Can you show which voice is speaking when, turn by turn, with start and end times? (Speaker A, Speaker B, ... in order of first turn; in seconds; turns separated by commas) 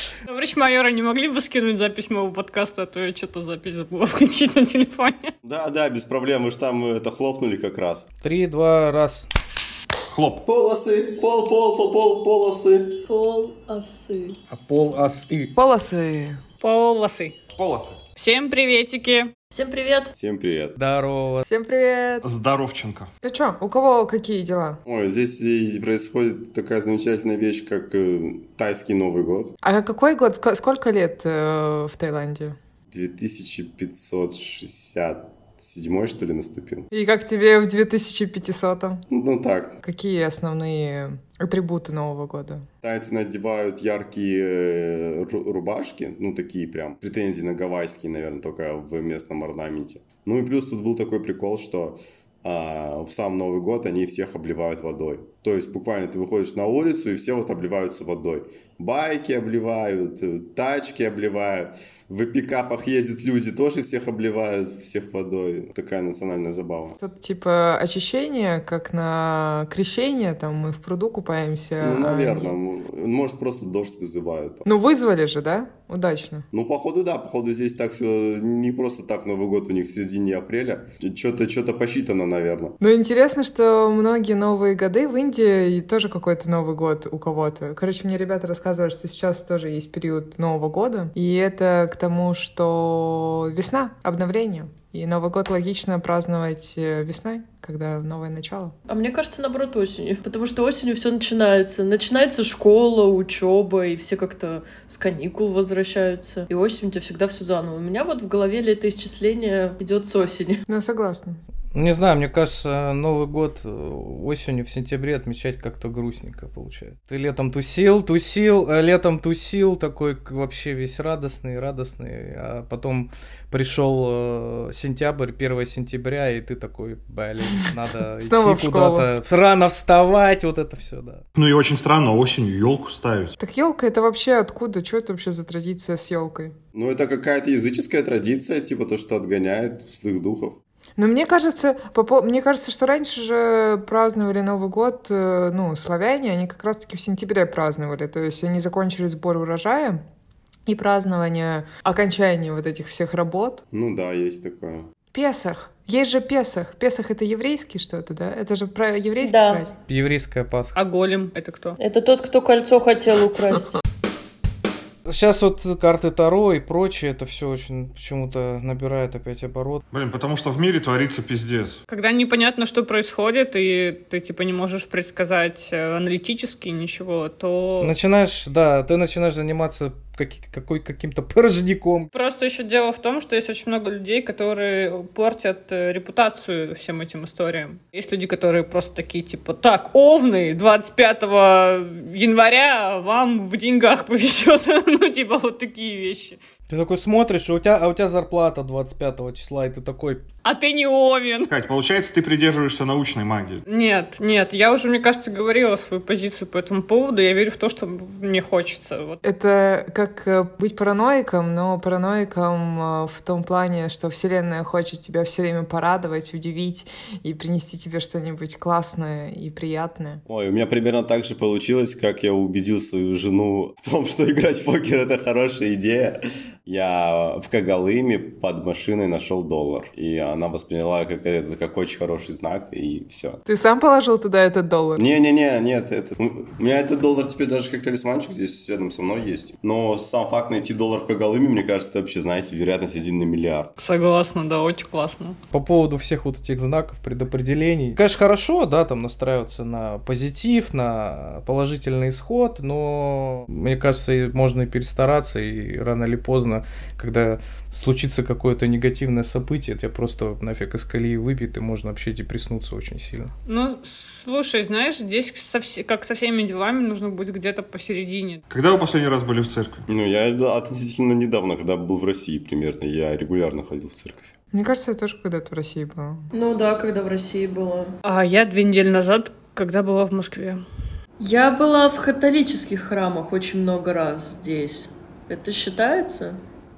Speaker A: 0.3-5.3, Speaker B: 5.4-8.1, Speaker C: 8.2-9.3, Speaker D: 10.1-10.4, Speaker B: 10.4-13.0, Speaker E: 13.1-14.4, Speaker C: 14.5-15.0, Speaker D: 14.8-15.3, Speaker F: 15.5-16.4, Speaker A: 16.6-17.4, Speaker D: 17.5-18.0, Speaker A: 18.2-19.3, Speaker E: 19.5-20.1, Speaker B: 20.1-20.8, Speaker C: 20.8-21.5, Speaker F: 21.4-22.2, Speaker D: 22.2-23.1, Speaker F: 23.2-24.8, Speaker B: 24.9-29.5, Speaker F: 29.6-32.5, Speaker B: 32.9-36.9, Speaker F: 36.9-39.0, Speaker B: 39.1-39.8, Speaker F: 39.8-42.6, Speaker B: 42.8-67.0, Speaker F: 67.0-72.5, Speaker B: 71.8-74.7, Speaker F: 74.7-76.4, Speaker B: 76.5-82.8, Speaker F: 82.8-98.7, Speaker E: 98.9-110.6, Speaker F: 110.7-111.4, Speaker C: 111.7-131.2, Speaker F: 128.2-129.1, Speaker D: 131.3-133.3, Speaker F: 133.4-136.5, Speaker B: 136.7-140.6, Speaker F: 141.0-150.0, Speaker F: 150.7-153.6, Speaker B: 153.7-154.9, Speaker F: 155.1-159.7, Speaker E: 159.2-159.6, Speaker C: 159.9-160.8, Speaker A: 160.8-161.8, Speaker E: 161.8-163.8, Speaker C: 165.1-169.8, Speaker D: 169.9-171.8, Speaker A: 171.9-177.9, Speaker C: 177.8-182.1, Speaker A: 182.1-196.4, Speaker C: 196.7-200.2, Speaker A: 200.4-201.5, Speaker D: 201.5-203.6, Speaker A: 203.7-209.2, Speaker F: 209.2-220.2, Speaker B: 220.3-233.4, Speaker F: 233.5-235.0, Speaker B: 235.0-243.7, Speaker A: 243.8-245.4, Speaker C: 245.5-263.3, Speaker A: 263.4-268.4, Speaker D: 268.5-269.9, Speaker B: 269.9-274.3, Speaker F: 274.5-276.3, Speaker E: 276.4-277.9, Speaker A: 278.1-280.6, Speaker E: 281.2-286.4